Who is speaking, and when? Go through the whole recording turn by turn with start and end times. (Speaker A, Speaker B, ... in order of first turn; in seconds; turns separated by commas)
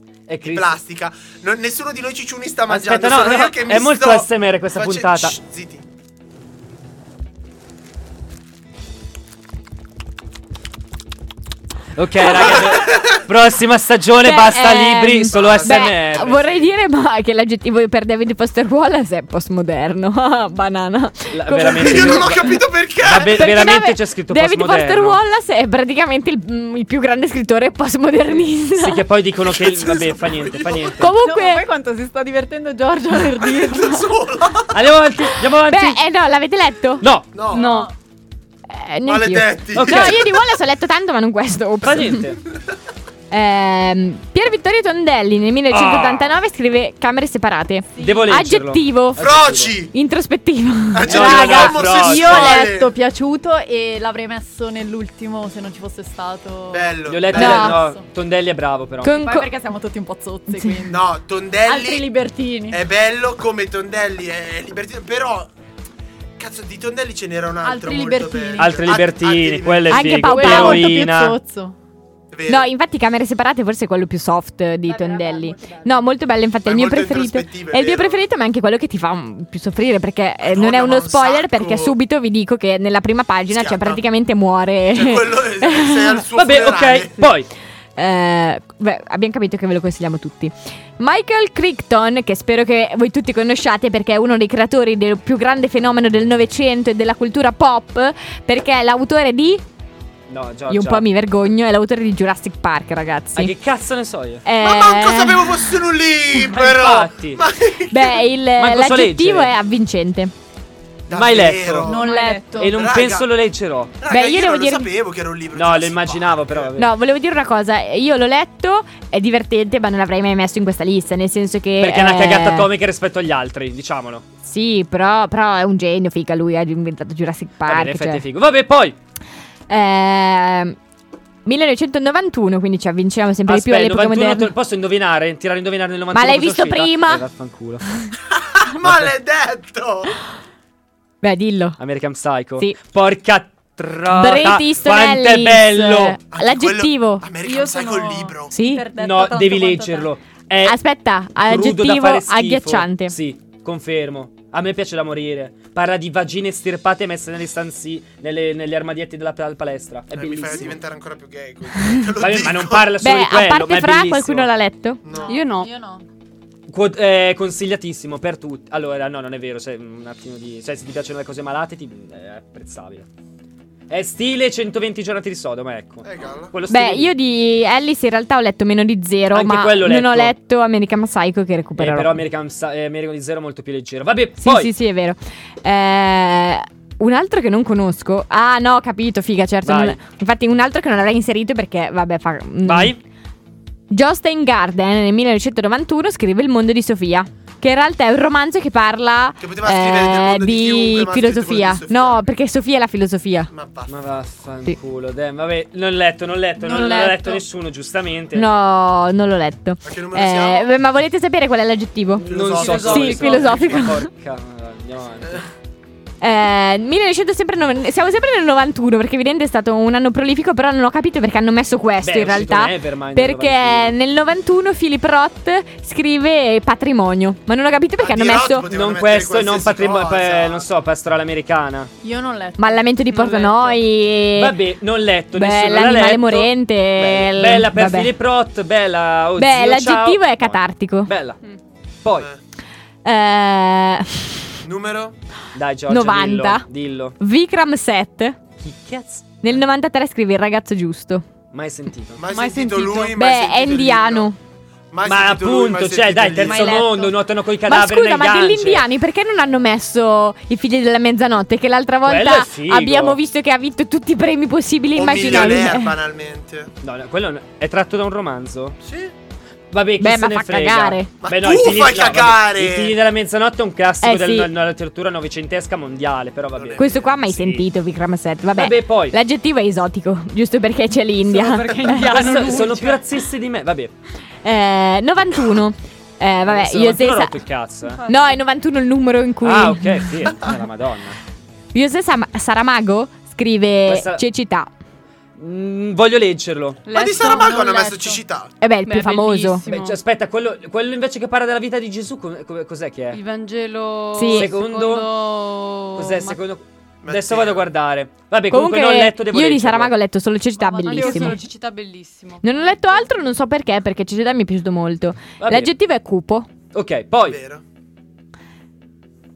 Speaker A: 0.3-0.8, Speaker B: 0.4-5.8, Speaker A: 2.7-5.4, Speaker A: 12.0-16.5, Speaker B: 12.2-13.2, Speaker C: 14.2-22.4, Speaker B: 15.3-16.6, Speaker A: 21.3-25.2, Speaker B: 21.6-23.8, Speaker C: 23.4-29.0, Speaker A: 28.7-31.1, Speaker B: 29.4-31.1, Speaker C: 31.0-31.6, Speaker D: 31.2-34.1, Speaker B: 33.4-34.8, Speaker A: 34.7-36.0, Speaker C: 35.7-37.1, Speaker A: 37.0-37.3, Speaker B: 37.3-37.7, Speaker E: 37.5-37.9, Speaker D: 37.5-37.9, Speaker C: 38.7-42.3, Speaker B: 39.1-40.3, Speaker A: 39.7-40.2, Speaker A: 41.8-42.4, Speaker C: 43.3-49.2, Speaker A: 45.7-46.4, Speaker A: 48.0-49.8, Speaker B: 49.2-49.9, Speaker C: 49.9-51.8, Speaker B: 50.9-52.9, Speaker A: 51.1-52.6, Speaker D: 51.9-58.0, Speaker B: 56.7-57.8, Speaker A: 57.1-59.1, Speaker C: 57.3-57.8, Speaker C: 59.0-59.5, Speaker D: 59.0-61.0, Speaker C: 60.5-60.8, Speaker B: 60.9-62.1, Speaker D: 61.7-62.8, Speaker B: 62.7-65.5, Speaker B: 66.4-70.2, Speaker D: 67.6-69.0, Speaker A: 68.6-71.4, Speaker C: 69.9-71.0, Speaker D: 70.2-71.8, Speaker B: 72.3-72.7, Speaker C: 72.5-86.2, Speaker D: 74.9-76.0, Speaker B: 76.7-78.2, Speaker B: 80.4-82.0, Speaker B: 83.5-84.0, Speaker B: 84.9-87.3, Speaker A: 86.4-87.5, Speaker C: 88.0-99.6, Speaker A: 100.3-101.0, Speaker C: 100.7-103.5, Speaker A: 103.4-104.4, Speaker C: 104.5-105.7, Speaker B: 104.6-108.2, Speaker A: 106.4-107.4, Speaker C: 107.9-110.3, Speaker A: 108.6-109.5, Speaker B: 111.1-112.1, Speaker A: 111.1-112.0, Speaker D: 111.9-112.8, Speaker E: 112.0-112.6, Speaker A: 112.6-113.9, Speaker B: 112.6-113.3, Speaker B: 114.0-116.7, Speaker C: 114.1-114.9, Speaker A: 115.5-116.9, Speaker C: 116.8-122.7, Speaker A: 121.8-124.2, Speaker C: 124.4-128.2, Speaker A: 127.7-129.0, Speaker C: 129.7-130.8, Speaker C: 131.4-134.5, Speaker A: 133.5-137.8, Speaker C: 136.1-137.2, Speaker B: 138.3-140.2, Speaker A: 138.8-139.1, Speaker C: 141.2-141.8, Speaker A: 141.8-146.2, Speaker C: 144.1-147.3, Speaker B: 146.3-148.5, Speaker D: 147.4-150.1, Speaker C: 148.5-148.9, Speaker A: 149.0-150.8, Speaker C: 150.7-153.2, Speaker A: 151.4-160.8, Speaker B: 160.1-162.9, Speaker A: 162.2-164.5, Speaker C: 163.0-165.0, Speaker B: 165.0-165.4, Speaker D: 165.1-166.1, Speaker E: 165.3-165.7, Speaker A: 166.7-173.1, Speaker A: 173.9-177.1, Speaker B: 176.0-176.5, Speaker C: 176.7-182.2, Speaker A: 179.3-180.3, Speaker A: 181.8-184.7, Speaker C: 184.4-192.9, Speaker A: 189.6-190.0, Speaker A: 192.7-193.0, Speaker C: 193.9-203.5, Speaker B: 199.4-202.3, Speaker B: 203.5-204.1, Speaker A: 203.9-208.5, Speaker E: 206.7-207.3, Speaker C: 208.3-214.1, Speaker B: 209.8-210.7, Speaker A: 212.2-215.5, Speaker B: 212.2-213.9, Speaker C: 216.2-228.7, Speaker A: 222.0-224.0, Speaker B: 228.0-230.6, Speaker A: 228.7-231.9, Speaker D: 232.0-233.3, Speaker C: 232.6-234.6, Speaker E: 233.2-233.7, Speaker A: 234.3-241.4, Speaker C: 235.3-238.1, Speaker C: 239.4-241.1, Speaker C: 243.1-244.5, Speaker B: 244.6-245.2, Speaker A: 245.5-247.2, Speaker C: 245.9-246.7, Speaker C: 247.2-248.4, Speaker A: 248.6-249.4, Speaker C: 249.4-251.2, Speaker A: 251.5-252.2, Speaker B: 252.2-254.3, Speaker E: 252.3-253.2, Speaker C: 253.2-254.4, Speaker B: 254.9-256.9, Speaker A: 255.0-258.8, Speaker C: 256.4-257.1, Speaker C: 257.7-265.9, Speaker A: 262.0-263.2, Speaker B: 264.9-266.7, Speaker A: 265.2-265.6, Speaker A: 266.8-268.8, Speaker B: 268.8-269.1, Speaker A: 269.7-277.7, Speaker C: 270.0-271.1, Speaker B: 271.2-272.9, Speaker C: 274.0-274.5, Speaker B: 276.5-276.9, Speaker C: 276.8-282.6, Speaker A: 278.6-279.2, Speaker A: 281.5-283.9, Speaker E: 281.9-283.0, Speaker C: 284.4-287.4, Speaker A: 286.5-288.0, Speaker E: 287.8-288.3, Speaker C: 288.1-290.5, Speaker A: 289.4-291.2, Speaker C: 291.7-294.7, Speaker A: 293.9-294.2, Speaker A: 295.4-296.8, Speaker E: 296.9-297.8, Speaker B: 296.9-298.5, Speaker D: 297.1-298.2, Speaker C: 298.6-299.6, Speaker E: 298.9-300.0, Speaker A: 299.7-303.2, Speaker E: 303.1-306.4, Speaker C: 304.1-304.5, Speaker A: 304.3-305.2, Speaker A: 305.9-309.9, Speaker B: 307.0-307.7, Speaker C: 308.5-311.4, Speaker D: 310.6-311.5, Speaker E: 310.8-312.7, Speaker C: 312.4-316.5, Speaker A: 315.4-315.7, Speaker A: 316.7-317.4, Speaker B: 317.3-317.6